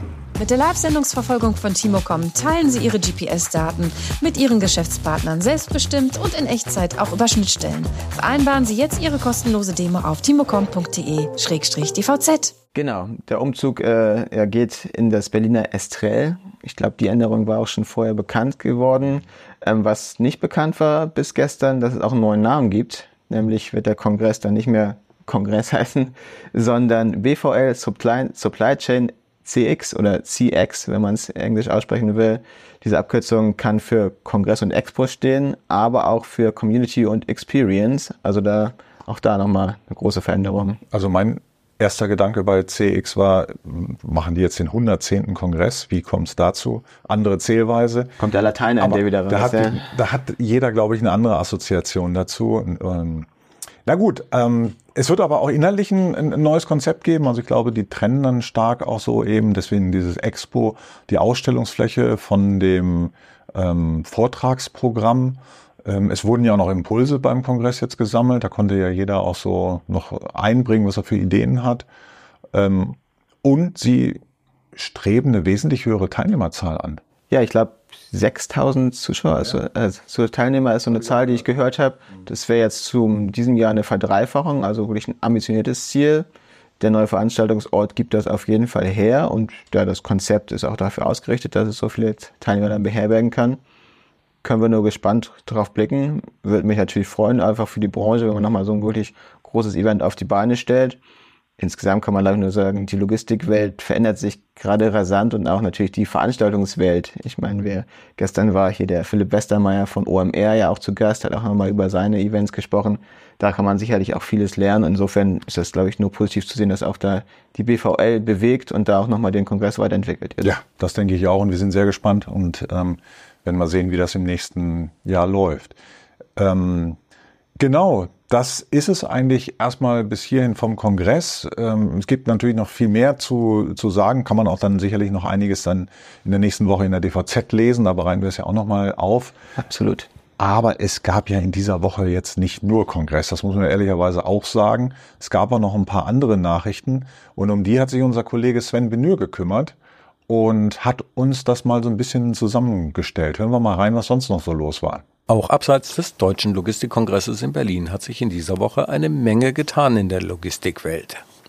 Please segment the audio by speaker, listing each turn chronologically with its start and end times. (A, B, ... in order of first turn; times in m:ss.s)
0:00.4-0:12.5 A
0:12.7-0:40.8 B
0:40.9-0:48.2 C
0:48.2-0:49.8 B
0:48.8-0:53.3 C
0:53.8-1:11.9 C
1:12.5-1:14.2 C
1:14.7-1:17.0 C
1:17.3-1:26.3 B
1:26.8-1:33.6 B
1:34.4-1:41.0 B
1:41.6-2:00.5 B
2:00.4-2:05.8 C
2:06.4-2:07.0 C
2:07.6-2:19.4 C
2:19.6-2:20.1 B
2:20.4-2:29.7 C
2:30.3-2:35.0 C
2:35.3-2:41.2 D